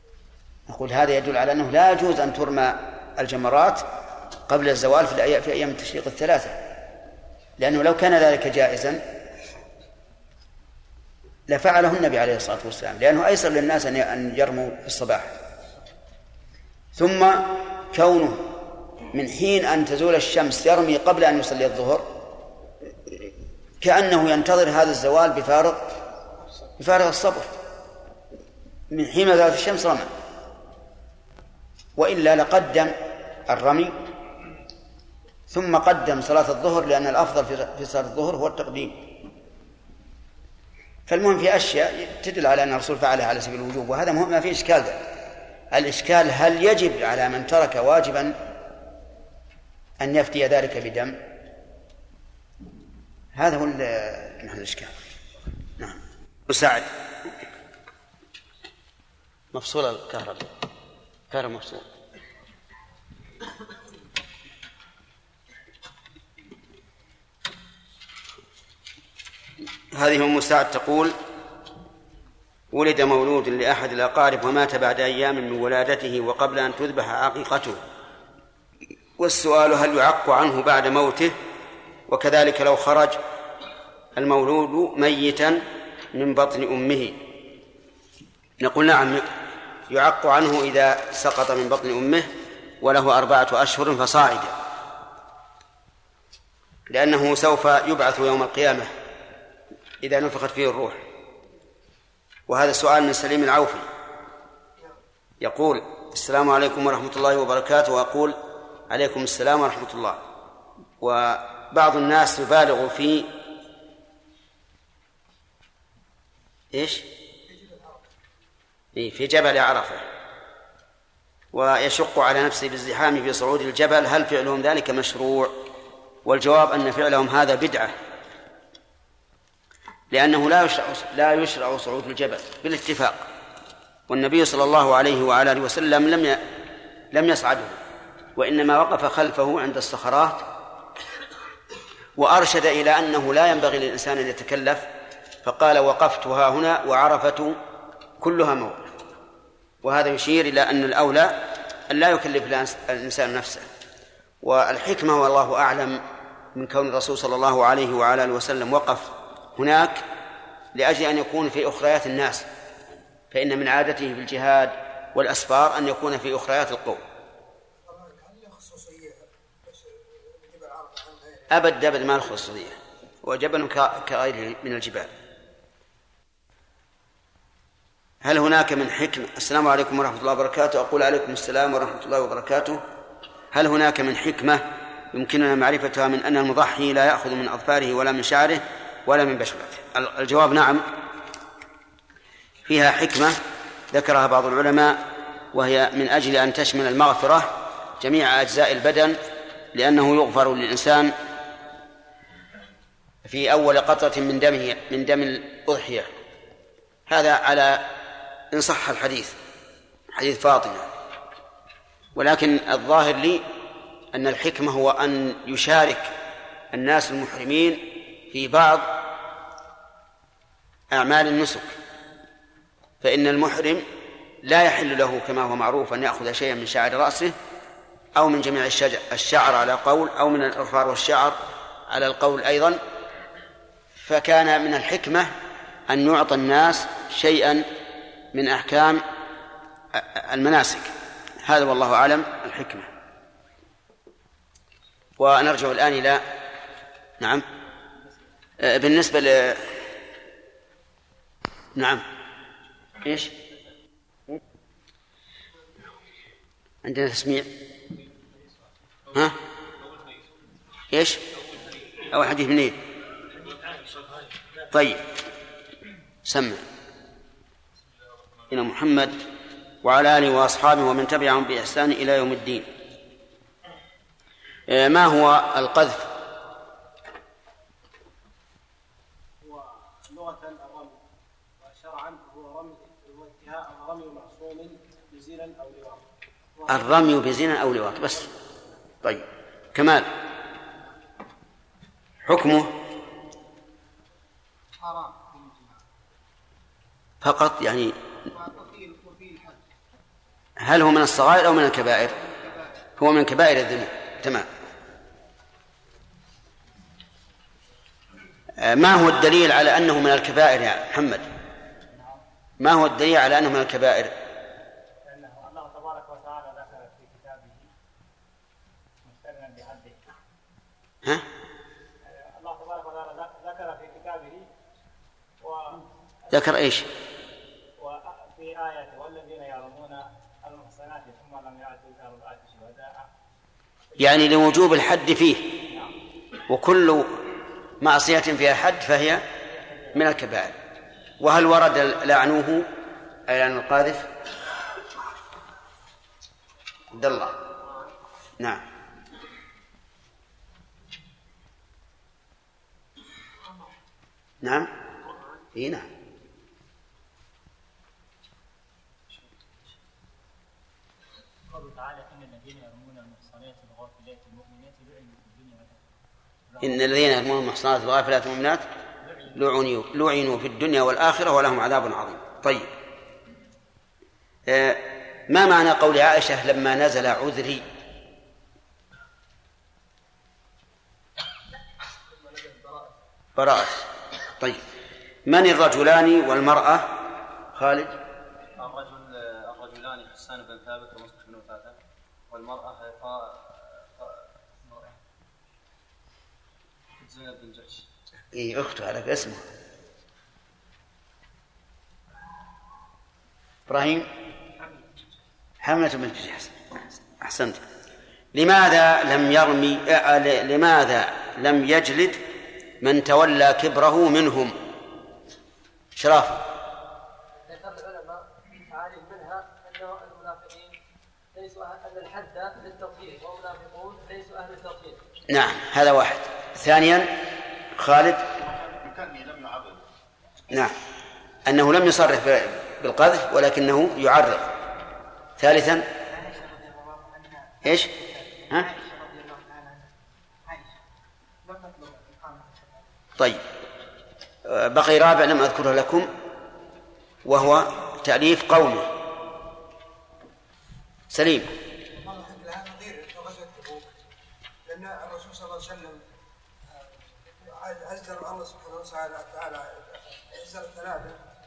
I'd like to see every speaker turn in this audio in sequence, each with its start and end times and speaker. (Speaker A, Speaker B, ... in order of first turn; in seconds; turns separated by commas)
Speaker A: 0.7-3.8, Speaker A: 4.5-6.5, Speaker A: 7.6-9.0, Speaker A: 11.5-15.3, Speaker A: 16.9-18.5, Speaker A: 19.1-22.1, Speaker A: 23.8-26.0, Speaker A: 26.8-27.6, Speaker A: 28.9-30.1, Speaker A: 32.0-32.9, Speaker A: 33.5-34.0, Speaker A: 35.5-39.0, Speaker A: 41.1-45.0, Speaker A: 45.7-48.3, Speaker A: 50.0-51.2, Speaker A: 53.3-55.0, Speaker A: 55.8-56.9, Speaker A: 59.5-60.5, Speaker A: 61.3-61.9, Speaker A: 69.9-71.1, Speaker A: 72.7-77.8, Speaker A: 79.2-81.3, Speaker A: 82.1-83.2, Speaker A: 84.2-87.2, Speaker A: 88.6-89.2, Speaker A: 89.9-92.3, Speaker A: 92.8-94.5, Speaker A: 96.9-98.9, Speaker A: 100.0-101.0, Speaker A: 102.5-103.9, Speaker A: 105.4-108.3, Speaker A: 108.9-110.2, Speaker A: 111.0-113.3, Speaker A: 116.7-117.0, Speaker B: 117.5-118.0, Speaker A: 119.0-120.0, Speaker A: 121.5-125.5, Speaker A: 126.2-127.9, Speaker A: 130.1-133.3, Speaker A: 134.1-136.4, Speaker A: 137.1-137.8, Speaker A: 138.3-140.4, Speaker A: 142.2-144.9, Speaker A: 145.4-147.6, Speaker A: 148.2-148.9, Speaker A: 149.8-153.7, Speaker A: 154.4-156.0, Speaker A: 156.5-160.0, Speaker A: 160.7-162.5, Speaker A: 163.3-167.0, Speaker B: 167.8-171.5, Speaker A: 171.5-175.1, Speaker A: 178.2-182.8, Speaker A: 183.5-190.9, Speaker A: 192.7-193.4, Speaker A: 193.9-199.2, Speaker A: 199.7-201.1, Speaker A: 203.2-206.1, Speaker A: 207.1-207.9, Speaker A: 208.5-209.3, Speaker A: 210.1-210.9, Speaker A: 212.2-213.5, Speaker A: 214.1-216.1, Speaker A: 216.7-218.9, Speaker A: 220.9-221.8, Speaker A: 223.0-223.8, Speaker A: 224.4-227.3, Speaker A: 228.2-232.8, Speaker A: 234.0-235.3, Speaker A: 235.9-237.6, Speaker A: 238.3-239.0, Speaker A: 239.9-240.9, Speaker A: 241.4-242.9, Speaker A: 245.2-246.2, Speaker A: 247.2-247.4, Speaker A: 248.6-249.7, Speaker A: 251.8-252.0, Speaker A: 253.0-253.3, Speaker A: 256.8-257.5, Speaker A: 260.9-261.2, Speaker A: 262.1-262.8, Speaker C: 263.4-264.2, Speaker A: 264.7-265.1, Speaker A: 266.2-266.6, Speaker A: 268.5-269.1, Speaker A: 269.8-272.7, Speaker A: 274.7-276.1, Speaker C: 279.4-281.0, Speaker C: 281.6-286.0, Speaker C: 286.6-286.9, Speaker A: 286.7-288.3, Speaker A: 289.0-290.1, Speaker A: 292.2-292.7, Speaker B: 294.8-295.8, Speaker A: 297.2-297.9, Speaker B: 298.2-299.6, Speaker A: 300.6-302.1, Speaker B: 302.1-302.7, Speaker A: 303.0-304.5, Speaker A: 308.6-311.3, Speaker A: 312.6-314.1, Speaker D: 315.1-317.6, Speaker D: 319.1-319.9, Speaker D: 322.1-324.4, Speaker A: 326.3-326.9, Speaker D: 327.8-333.0, Speaker A: 334.0-335.6, Speaker A: 336.5-337.2, Speaker A: 337.8-339.3, Speaker A: 339.9-340.6, Speaker A: 341.2-342.7, Speaker A: 343.3-344.1, Speaker A: 346.9-347.3, Speaker A: 354.4-354.7, Speaker A: 355.5-355.9, Speaker D: 361.5-365.8, Speaker A: 366.6-368.6, Speaker A: 369.3-372.7, Speaker A: 374.5-377.6, Speaker A: 383.4-383.8, Speaker A: 385.3-386.9, Speaker A: 387.5-387.9, Speaker E: 388.6-391.8, Speaker E: 392.3-394.9, Speaker E: 397.0-397.8, Speaker A: 398.3-399.4, Speaker A: 403.7-404.1, Speaker C: 404.6-404.9, Speaker A: 405.6-406.5, Speaker A: 407.2-407.6, Speaker A: 408.3-412.2, Speaker A: 412.8-414.6, Speaker A: 415.9-416.4, Speaker C: 417.5-420.8, Speaker C: 421.3-425.0, Speaker A: 425.3-427.1, Speaker A: 427.8-428.2, Speaker A: 431.4-434.5, Speaker A: 435.4-435.9, Speaker C: 436.1-439.7, Speaker A: 437.6-437.9, Speaker B: 441.4-442.8, Speaker A: 444.4-446.1, Speaker A: 447.2-448.9, Speaker A: 451.1-451.5, Speaker B: 451.9-453.9, Speaker B: 454.6-456.0, Speaker B: 457.3-461.2